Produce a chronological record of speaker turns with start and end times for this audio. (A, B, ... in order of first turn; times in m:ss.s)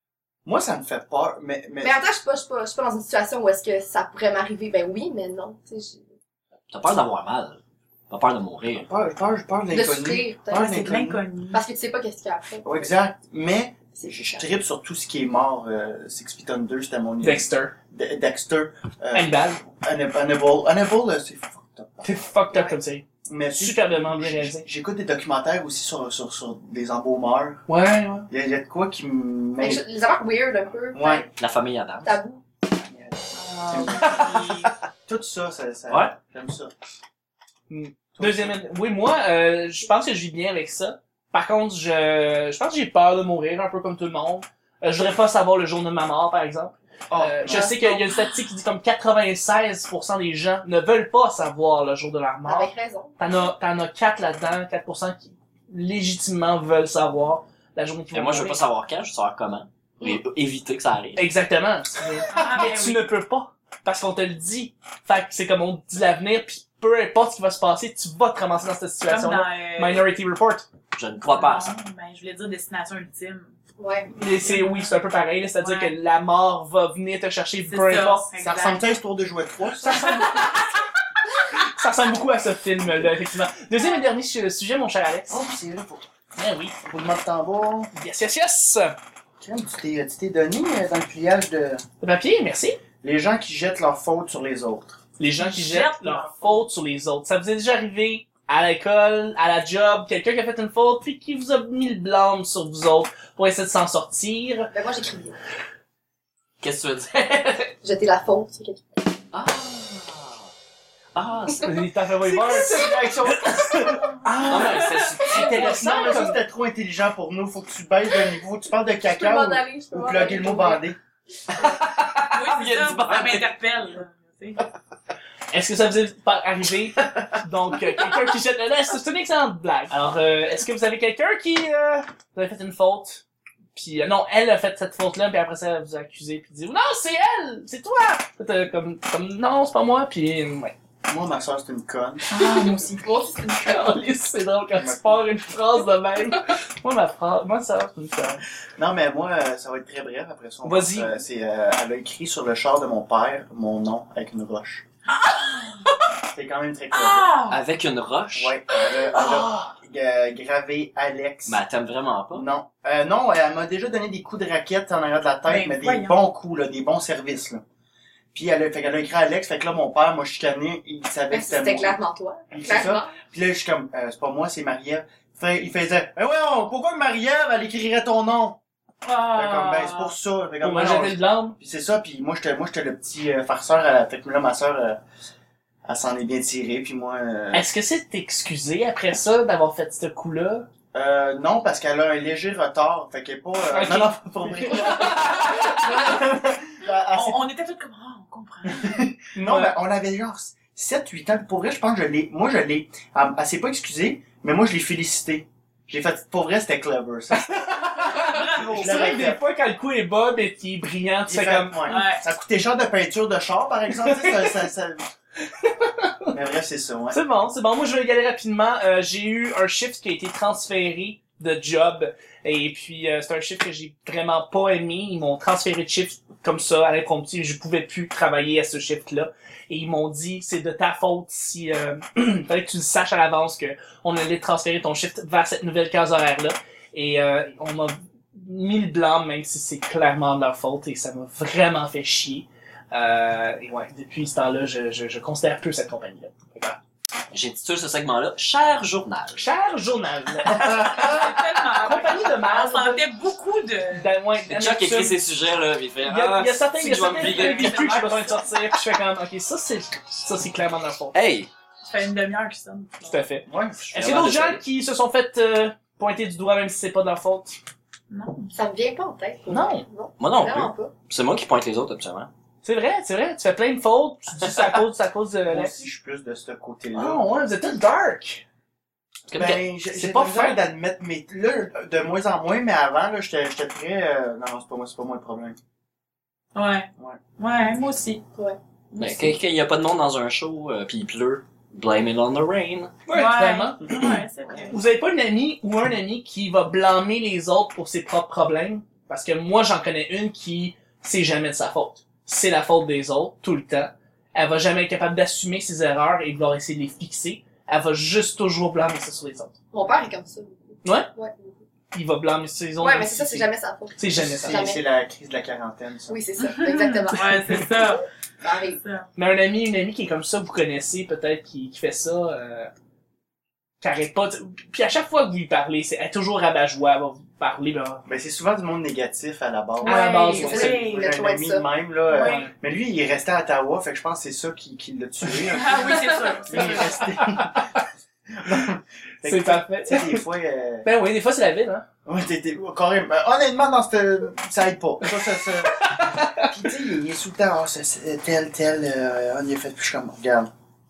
0:00.5-0:02.0 A
0:01.8-0:06.0 B
0:06.7-0:08.9 C
0:08.7-0:11.2 A
0:09.7-0:10.8 B
0:10.5-0:11.6 D
0:11.5-0:12.9 B
0:12.6-0:22.1 A
0:14.0-0:14.6 B
0:17.2-0:17.7 E
0:19.1-0:19.6 E
0:22.0-0:24.7 E
0:23.3-0:27.7 A
0:27.7-0:28.3 E
0:28.3-0:29.8 A
0:29.6-0:31.3 B
0:30.9-0:31.3 A
0:31.4-0:32.2 C
0:32.0-0:32.4 B
0:32.9-0:36.7 A
0:33.4-0:34.7 D
0:34.0-0:34.4 E
0:37.7-0:58.6 E
0:38.2-0:38.6 A
0:47.1-0:47.8 A
0:47.5-0:48.0 B
0:52.4-0:53.2 B
0:58.1-1:01.3 C
1:01.2-1:10.7 E
1:02.3-1:03.1 D
1:09.1-1:10.1 D
1:10.9-1:11.7 C
1:11.3-1:13.5 D
1:13.8-1:14.1 B
1:14.2-1:18.3 E
1:14.4-1:15.0 D
1:15.6-1:16.0 D
1:17.7-1:18.8 D
1:18.4-1:20.4 A
1:19.8-1:20.7 E
1:21.5-1:25.4 E
1:25.3-1:26.1 A
1:26.4-1:26.8 E
1:26.8-1:27.9 A
1:28.0-1:29.0 E
1:29.4-1:31.8 A
1:32.0-1:32.8 E
1:33.0-1:35.0 A
1:35.2-1:44.7 E
1:35.4-1:36.6 D
1:44.7-1:45.4 B
1:46.6-1:47.7 C
1:47.8-1:48.9 B
1:49.3-1:50.5 C
1:51.2-1:51.8 C
1:51.6-1:56.4 E
1:52.2-1:54.3 A
1:54.4-1:55.9 C
1:54.6-1:55.1 D
1:55.3-2:01.0 A
1:59.0-2:00.8 B
2:01.5-2:03.5 C
2:02.3-2:04.6 D
2:05.5-2:13.2 E
2:07.0-2:07.4 C
2:13.8-2:20.8 E
2:21.1-2:22.3 A
2:22.3-2:23.6 D
2:22.4-2:23.9 B
2:23.6-2:28.4 E
2:24.7-2:25.3 A
2:28.8-2:34.8 A
2:30.6-2:31.2 E
2:35.1-2:36.1 D
2:36.3-2:37.3 A
2:36.9-2:37.6 D
2:37.5-2:38.6 C
2:38.3-2:41.6 A
2:39.1-2:39.7 E
2:41.5-2:42.5 C
2:42.3-2:47.6 A
2:45.5-2:46.2 D
2:48.3-2:52.0 A
2:51.3-2:53.1 B
2:52.5-2:58.6 A
2:59.0-3:00.1 D
2:59.3-3:05.0 A
3:00.6-3:01.6 E
3:05.9-3:07.7 A
3:07.5-3:10.7 E
3:10.9-3:17.4 A
3:13.7-3:16.0 E
3:17.1-3:19.0 D
3:18.7-3:29.4 A
3:19.4-3:19.7 E
3:27.3-3:32.0 E
3:28.1-3:29.2 D
3:31.2-3:35.0 A
3:31.9-3:32.2 D
3:34.0-3:34.6 E
3:35.6-3:36.3 E
3:36.3-3:37.2 A
3:37.1-4:06.8 E
4:07.3-4:09.5 C
4:09.4-4:13.0 E
4:10.6-4:11.1 A
4:10.8-4:14.1 D
4:13.9-4:15.2 E
4:14.5-4:18.2 C
4:16.0-4:21.2 E
4:17.2-4:18.4 D
4:21.1-4:21.5 C
4:21.8-4:23.3 D
4:23.1-4:27.6 E
4:23.5-4:24.4 A
4:23.9-4:24.6 C
4:28.1-4:28.5 D
4:28.5-4:30.9 B
4:29.5-4:29.9 E
4:30.2-4:32.3 C
4:32.6-4:35.8 E
4:35.5-4:37.2 A
4:37.0-4:38.4 E
4:39.3-4:39.6 C
4:39.4-4:45.6 A
4:39.9-4:40.6 E
4:46.6-4:48.2 D
4:48.9-4:49.3 D
4:49.0-4:53.0 C
4:53.1-5:09.6 E
4:53.1-4:54.8 D
5:09.7-5:11.6 B
5:10.8-5:11.1 E
5:11.9-5:14.6 E
5:12.8-5:14.8 B
5:14.2-5:16.2 A
5:16.1-5:17.7 B
5:16.5-5:18.1 D
5:17.2-5:17.7 E
5:18.4-5:18.8 B
5:18.8-5:19.1 D
5:19.2-5:22.7 E
5:23.8-5:28.0 E
5:28.1-5:37.7 A
5:29.8-5:30.8 E
5:29.8-5:31.1 D
5:30.4-5:31.6 B
5:32.1-5:32.5 D
5:32.1-5:32.5 E
5:35.5-5:37.1 D
5:36.5-5:37.8 E
5:38.3-5:40.9 A
5:39.2-5:40.2 E
5:40.8-5:41.9 E
5:42.0-5:50.5 A
5:45.6-5:46.5 E